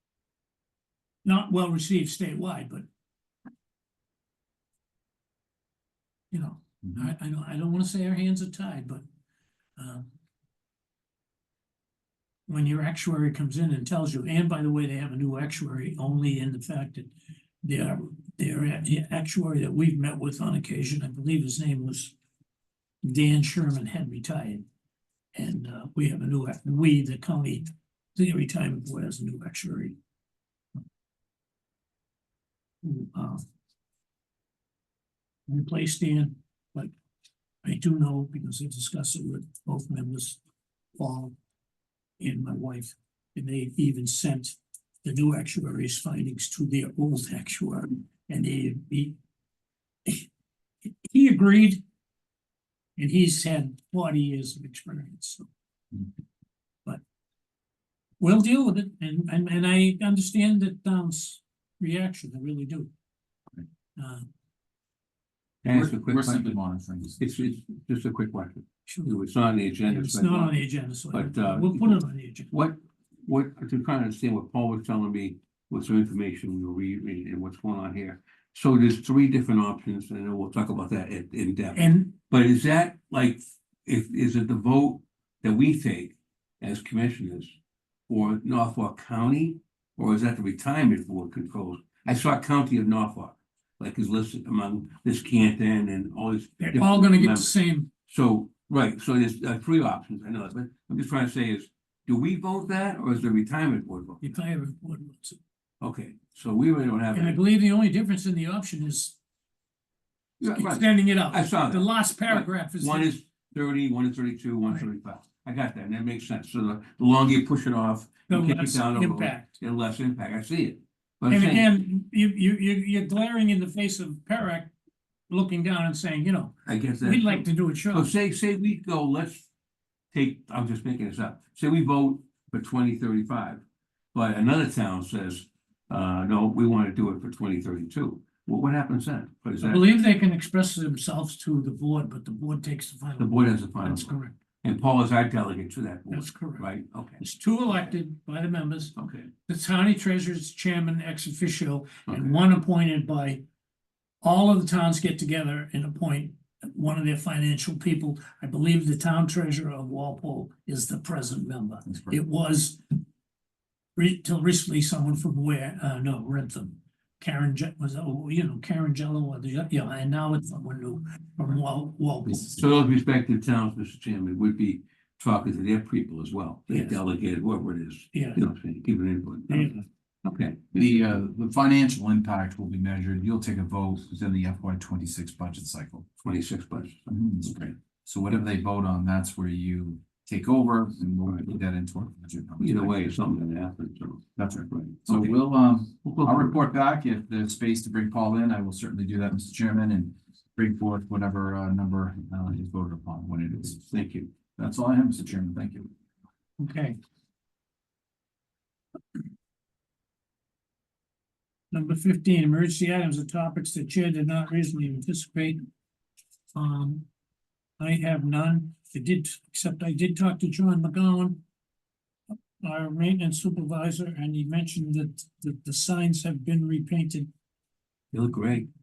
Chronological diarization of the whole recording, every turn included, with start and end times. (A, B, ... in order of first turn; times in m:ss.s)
0:01.2-0:02.9 A
0:06.3-0:09.0 A
0:09.8-0:10.1 A
0:12.5-0:17.1 A
0:17.6-0:22.2 A
0:23.0-0:24.6 A
0:25.3-0:30.0 A
0:32.8-0:33.4 A
0:35.5-0:36.9 A
0:37.6-0:40.4 A
0:41.0-0:41.4 A
0:42.2-0:49.2 A
0:51.0-0:51.8 A
0:53.0-0:55.5 A
0:58.2-1:02.9 A
1:04.0-1:04.3 A
1:05.6-1:06.6 B
1:05.7-1:07.2 C
1:07.2-1:27.6 B
1:08.9-1:09.2 A
1:09.9-1:12.5 A
1:21.8-1:22.1 A
1:28.1-1:37.6 B
1:36.6-1:37.9 A
1:38.1-1:44.3 B
1:44.2-1:45.4 A
1:45.8-1:47.4 B
1:47.1-1:49.2 A
1:50.4-2:01.7 B
1:50.4-1:53.1 A
1:58.3-1:59.6 A
2:01.3-2:04.7 A
2:05.3-2:08.1 A
2:06.7-2:09.5 B
2:10.1-2:13.6 B
2:14.1-2:19.9 B
2:19.6-2:24.4 A
2:23.2-2:27.2 B
2:26.1-2:26.7 A
2:27.2-2:29.0 A
2:29.0-2:29.3 B
2:29.5-2:33.4 A
2:34.2-2:42.8 A
2:41.9-2:42.2 C
2:44.0-2:52.6 A
2:52.3-3:00.7 B
2:56.7-2:57.0 A
2:58.1-2:58.4 A
2:59.5-2:59.8 A
3:00.7-3:06.1 C
3:06.2-3:07.6 B
3:07.1-3:13.2 C
3:11.3-3:11.5 B
3:12.6-3:15.4 B
3:14.4-3:23.8 C
3:16.0-3:16.6 B
3:23.7-3:24.3 B
3:24.6-3:25.9 C
3:26.6-3:27.0 A
3:31.7-3:35.6 A
3:36.5-3:37.1 A
3:37.8-3:41.4 A
3:42.6-3:47.3 A
3:48.1-3:48.7 B